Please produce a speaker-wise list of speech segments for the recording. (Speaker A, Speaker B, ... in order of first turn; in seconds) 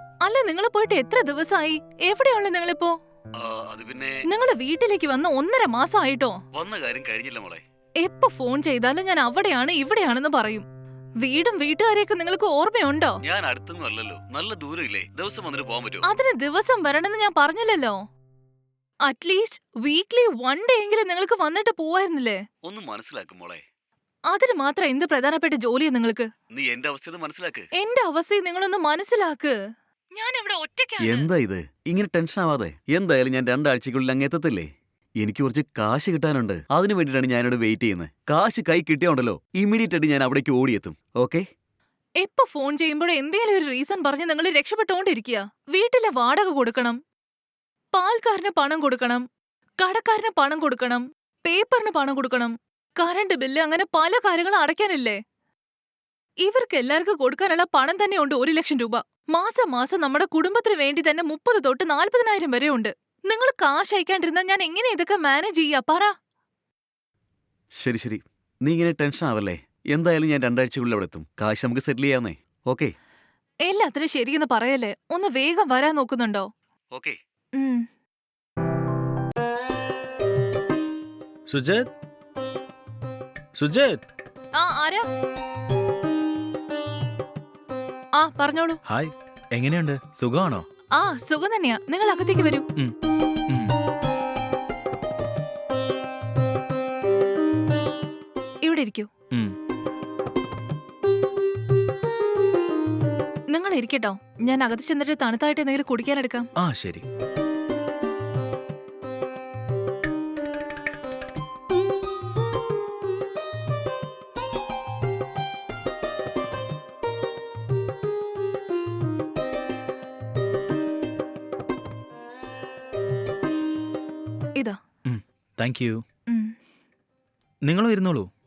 Speaker A: 0.2-2.9, 4.2-6.3, 8.0-10.6, 11.2-13.2, 16.0-18.0, 19.1-22.4, 24.3-26.3, 27.8-29.5, 30.1-31.3, 42.2-47.0, 47.9-49.2, 49.8-55.2, 56.4-66.1, 73.7-76.5, 77.5-77.8, 84.6-85.0, 88.2-88.8, 91.0-92.6, 98.6-99.1, 103.5-106.5, 126.3-126.5
Speaker B: 3.4-4.2, 6.5-7.6, 13.2-16.1, 22.6-23.6, 26.5-27.7, 31.0-34.7, 35.2-41.4, 67.8-72.9
Speaker C: 81.5-81.8, 83.5-84.0, 88.8-90.6, 106.6-107.0, 125.0-126.0, 127.6-128.3